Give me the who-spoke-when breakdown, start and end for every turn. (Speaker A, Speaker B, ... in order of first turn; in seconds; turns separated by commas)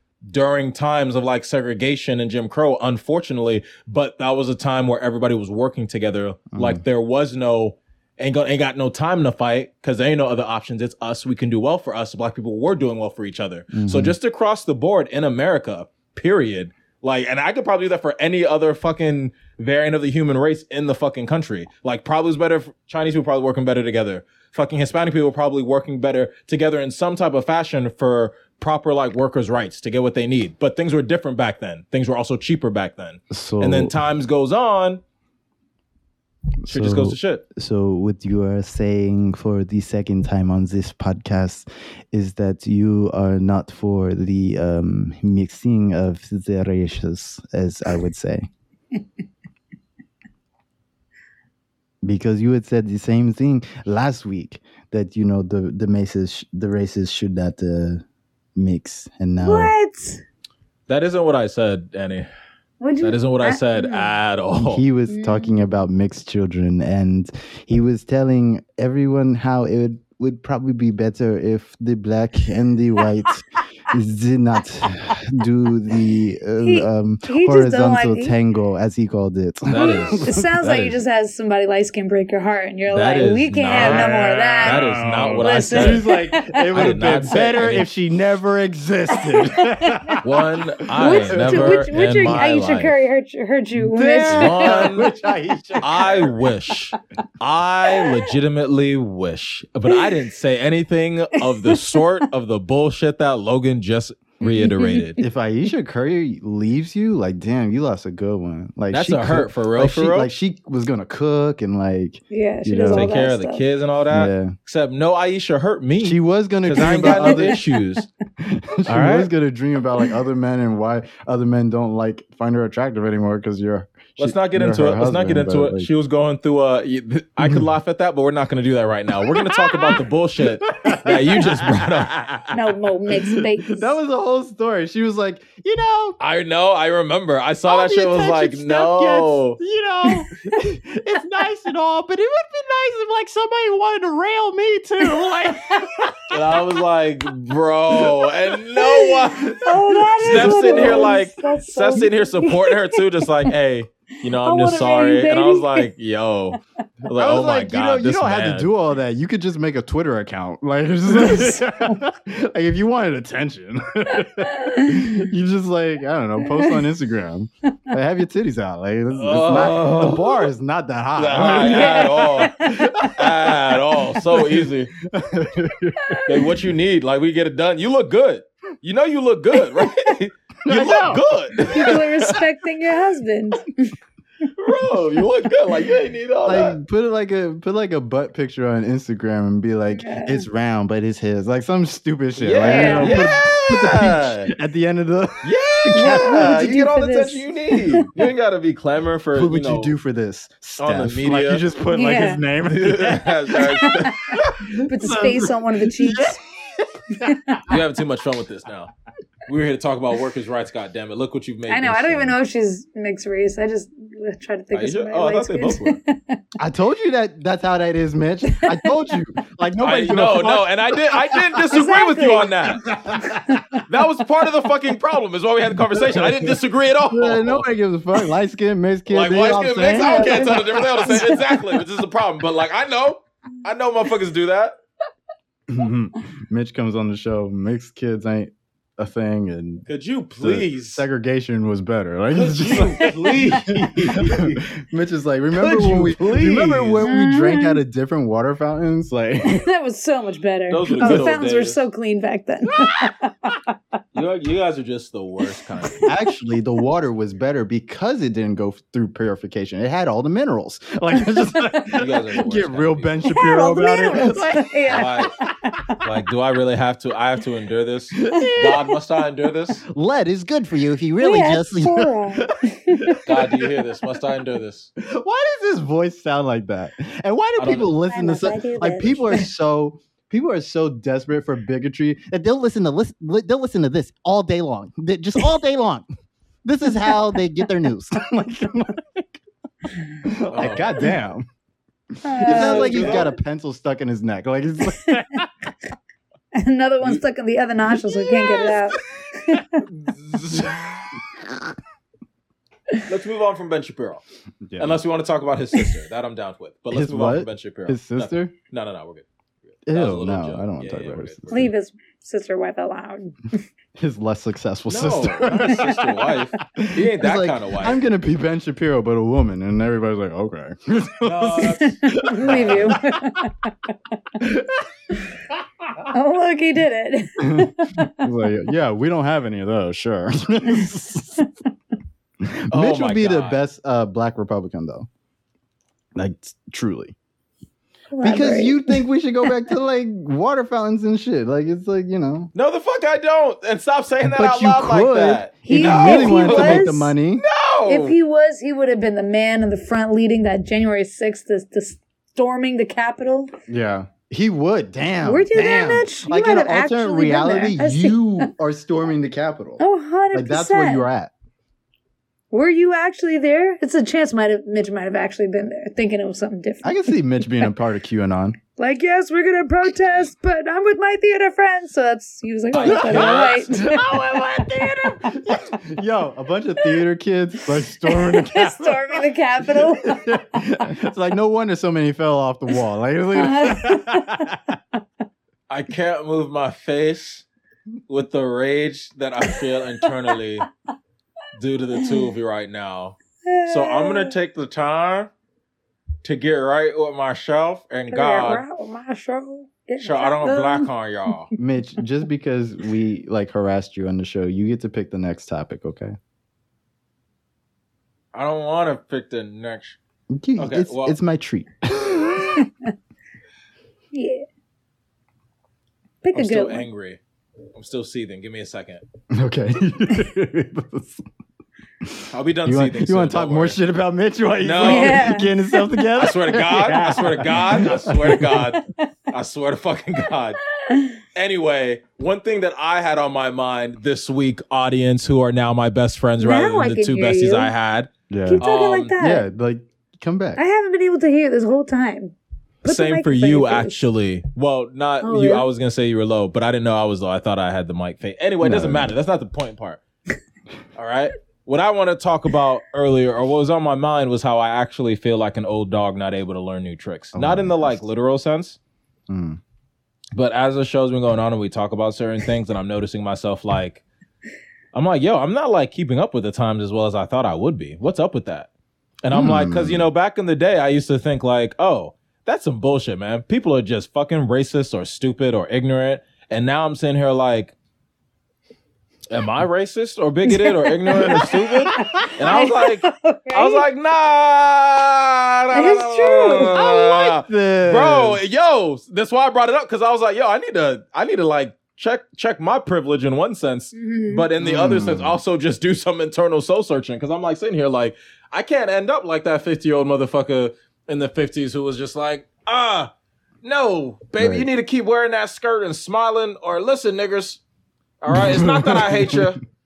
Speaker A: 0.3-35.0, Speaker B: 6.5-6.8, Speaker B: 13.7-14.1, Speaker B: 33.3-33.9, Speaker B: 36.6-48.5, Speaker A: 36.7-37.5, Speaker B: 52.0-58.0, Speaker B: 58.5-59.7, Speaker C: 59.4-60.2, Speaker A: 60.9-62.3, Speaker C: 62.8-64.1, Speaker A: 63.0-64.8, Speaker B: 64.6-80.9, Speaker C: 65.1-65.7, Speaker C: 76.6-78.3, Speaker A: 79.7-80.2, Speaker C: 79.8-86.6, Speaker A: 82.9-86.1, Speaker B: 83.7-91.9, Speaker A: 86.7-87.9, Speaker C: 89.2-90.2, Speaker A: 90.2-93.0, Speaker C: 91.0-94.9, Speaker B: 93.8-96.3, Speaker A: 94.3-95.1, Speaker A: 95.8-105.2, Speaker C: 97.9-98.3, Speaker C: 101.5-102.0, Speaker C: 104.4-105.1, Speaker B: 105.2-113.1, Speaker A: 108.9-110.3, Speaker C: 112.3-113.6, Speaker A: 112.9-118.1, Speaker B: 114.1-114.5, Speaker B: 116.0-117.6, Speaker C: 116.8-117.8, Speaker B: 118.4-125.9, Speaker A: 118.9-119.3, Speaker A: 124.2-132.6, Speaker B: 127.4-127.7, Speaker B: 129.2-132.1, Speaker C: 132.5-133.9, Speaker B: 133.2-136.2, Speaker A: 136.2-139.6, Speaker B: 137.7-146.6, Speaker C: 140.0-140.6, Speaker C: 145.0-146.1, Speaker A: 146.3-149.7, Speaker B: 147.9-148.3, Speaker C: 148.8-153.5, Speaker B: 149.4-151.1, Speaker A: 150.2-158.7, Speaker C: 154.3-155.9, Speaker B: 157.1-173.5, Speaker C: 161.1-162.0, Speaker C: 164.1-165.1, Speaker C: 166.5-166.8, Speaker A: 169.1-170.5, Speaker A: 171.2-174.9, Speaker C: 171.4-173.1, Speaker B: 174.2-176.6, Speaker C: 176.1-176.4, Speaker A: 176.2-182.4, Speaker C: 179.5-180.1, Speaker B: 180.6-182.0, Speaker C: 181.7-183.9, Speaker A: 184.6-186.8, Speaker B: 186.4-196.6, Speaker C: 190.0-190.5, Speaker A: 192.4-194.5, Speaker C: 192.7-193.2, Speaker A: 195.4-199.9, Speaker C: 195.9-198.1, Speaker B: 199.3-207.8, Speaker A: 200.8-201.6, Speaker C: 201.9-202.4, Speaker A: 202.6-204.6, Speaker C: 203.8-204.3, Speaker C: 204.9-206.4, Speaker C: 207.2-207.7, Speaker A: 207.7-208.9, Speaker A: 209.4-212.3, Speaker C: 211.7-216.4, Speaker A: 214.7-216.0, Speaker B: 216.6-221.8, Speaker C: 218.5-218.9, Speaker A: 219.8-222.9, Speaker C: 221.7-222.5, Speaker B: 222.8-223.8, Speaker C: 223.2-223.8, Speaker A: 223.8-227.7, Speaker B: 225.8-226.6, Speaker B: 227.1-231.5, Speaker A: 229.1-234.7, Speaker C: 229.9-231.8, Speaker B: 235.7-239.8, Speaker A: 239.9-241.0, Speaker B: 240.4-249.7, Speaker A: 242.3-244.7, Speaker C: 242.7-243.4, Speaker A: 245.5-247.0, Speaker C: 247.0-247.8, Speaker C: 249.4-253.7, Speaker A: 250.7-251.8, Speaker B: 250.9-251.3, Speaker B: 252.7-253.1, Speaker A: 254.1-256.1, Speaker C: 255.8-256.3, Speaker B: 256.0-265.1, Speaker A: 261.9-263.3, Speaker C: 263.2-266.1, Speaker A: 264.9-265.4, Speaker A: 266.0-269.8, Speaker B: 268.2-268.9, Speaker C: 268.3-268.8, Speaker B: 269.8-273.7, Speaker C: 271.2-273.2, Speaker A: 273.2-274.9, Speaker B: 275.0-286.1, Speaker A: 277.6-277.9, Speaker C: 277.9-279.5, Speaker B: 286.6-289.4, Speaker C: 286.8-287.4, Speaker C: 289.9-290.2, Speaker B: 290.2-291.5, Speaker A: 290.5-291.1, Speaker C: 292.2-293.3, Speaker B: 292.3-295.5, Speaker A: 292.4-293.3, Speaker C: 295.0-295.4, Speaker C: 296.5-299.8, Speaker B: 298.1-298.7, Speaker A: 299.8-301.2, Speaker B: 301.3-301.8, Speaker A: 303.1-304.2, Speaker B: 304.7-305.0, Speaker A: 304.8-311.6, Speaker B: 306.9-308.5, Speaker B: 309.9-311.7, Speaker C: 311.5-313.6, Speaker B: 314.0-316.1, Speaker A: 314.9-318.0, Speaker C: 315.6-316.3, Speaker B: 316.8-323.4, Speaker A: 321.2-323.0, Speaker C: 321.8-324.4, Speaker B: 324.4-324.9, Speaker C: 325.1-325.4, Speaker C: 326.1-328.2, Speaker B: 327.4-331.4, Speaker C: 330.7-331.5, Speaker B: 332.4-335.1, Speaker A: 332.7-333.6, Speaker B: 336.1-337.1, Speaker C: 338.1-339.5, Speaker B: 338.2-342.5, Speaker A: 342.5-348.1, Speaker B: 344.2-347.4, Speaker C: 345.6-347.1, Speaker C: 347.9-353.5, Speaker B: 353.7-359.8, Speaker C: 355.2-358.5, Speaker C: 359.8-361.1, Speaker B: 360.3-361.3, Speaker C: 362.5-367.7, Speaker B: 366.8-368.6, Speaker C: 368.8-375.8, Speaker A: 372.7-373.8, Speaker B: 372.8-384.6, Speaker C: 377.7-380.6, Speaker C: 383.4-384.5, Speaker A: 385.7-387.5, Speaker A: 388.1-390.7, Speaker C: 389.4-390.1, Speaker A: 391.6-395.3, Speaker C: 392.0-392.2, Speaker C: 393.4-394.3, Speaker A: 396.2-398.6, Speaker C: 398.1-400.9, Speaker A: 400.0-401.5, Speaker B: 401.6-406.1, Speaker A: 408.3-410.0, Speaker B: 410.3-412.7, Speaker A: 410.6-411.2, Speaker C: 414.1-414.4, Speaker C: 416.2-416.9, Speaker A: 416.3-417.2, Speaker A: 417.7-419.1, Speaker B: 419.3-421.2, Speaker B: 422.0-428.6, Speaker A: 422.3-423.8, Speaker A: 424.6-425.3, Speaker C: 424.8-426.0, Speaker A: 426.1-430.6, Speaker C: 427.8-429.1, Speaker C: 430.9-431.2, Speaker A: 431.3-439.1, Speaker C: 436.4-437.7, Speaker B: 438.3-438.6, Speaker C: 438.4-439.5, Speaker B: 439.2-440.6, Speaker C: 440.6-444.1, Speaker A: 442.9-450.0, Speaker C: 445.2-445.7, Speaker B: 448.6-449.1, Speaker A: 450.9-458.8, Speaker B: 457.3-458.0, Speaker B: 459.3-459.6, Speaker A: 460.3-464.0, Speaker A: 464.9-468.7, Speaker A: 469.2-477.7, Speaker B: 469.3-470.1, Speaker A: 479.3-503.1, Speaker C: 480.4-483.8, Speaker C: 485.7-486.7, Speaker B: 486.5-488.4, Speaker C: 493.9-494.5, Speaker B: 494.6-495.4, Speaker A: 503.6-507.6, Speaker B: 504.4-504.7, Speaker A: 508.2-509.6, Speaker B: 508.3-509.6